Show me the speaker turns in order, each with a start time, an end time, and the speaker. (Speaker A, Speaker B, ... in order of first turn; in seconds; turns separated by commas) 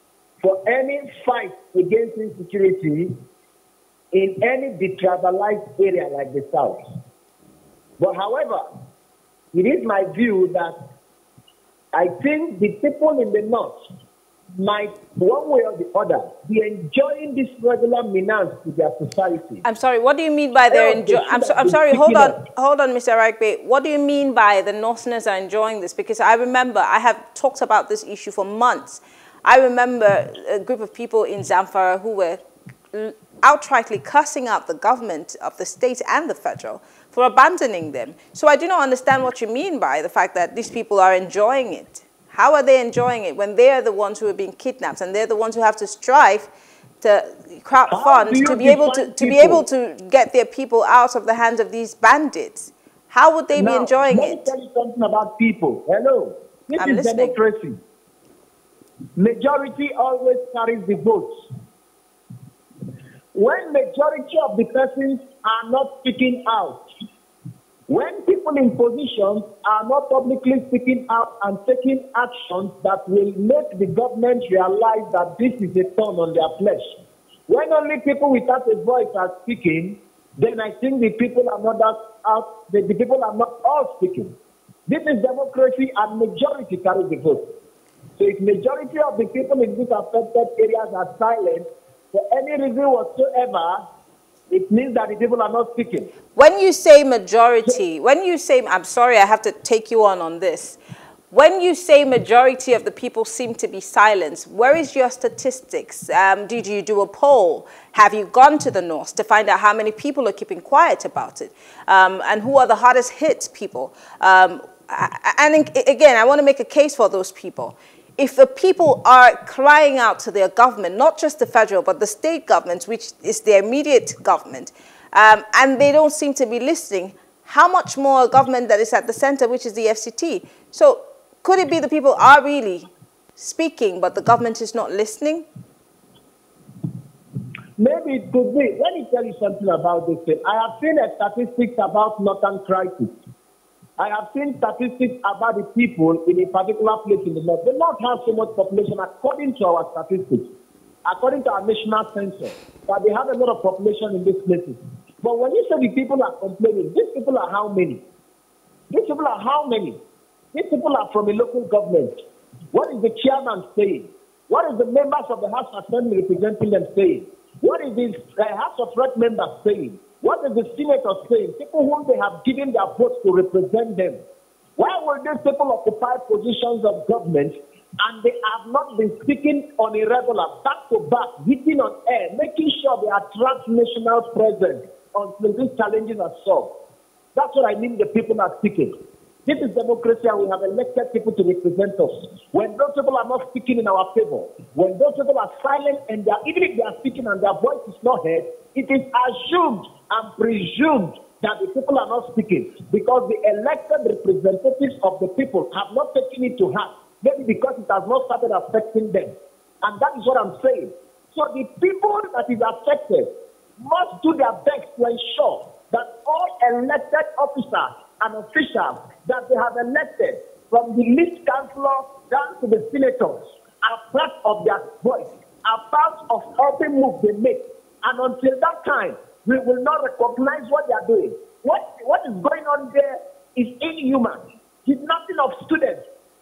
Speaker A: 0.4-3.1, Speaker A: 4.1-6.8, Speaker A: 8.0-8.6, Speaker A: 9.5-10.7, Speaker A: 11.9-13.8, Speaker A: 14.6-19.6, Speaker B: 19.6-46.5, Speaker A: 20.7-22.4, Speaker B: 47.0-54.5, Speaker A: 47.9-49.7, Speaker A: 53.5-57.8, Speaker B: 56.8-57.4, Speaker A: 59.2-61.3, Speaker A: 63.3-66.8, Speaker A: 67.9-84.3, Speaker A: 84.9-87.4, Speaker A: 88.2-93.8, Speaker A: 94.5-96.1, Speaker B: 96.3-100.8, Speaker B: 101.3-135.4, Speaker A: 137.8-143.1, Speaker A: 144.0-150.5, Speaker A: 151.1-158.0, Speaker A: 158.9-160.0, Speaker A: 160.5-162.1, Speaker A: 162.7-174.2, Speaker A: 174.8-186.7, Speaker A: 187.3-188.9, Speaker A: 189.5-236.0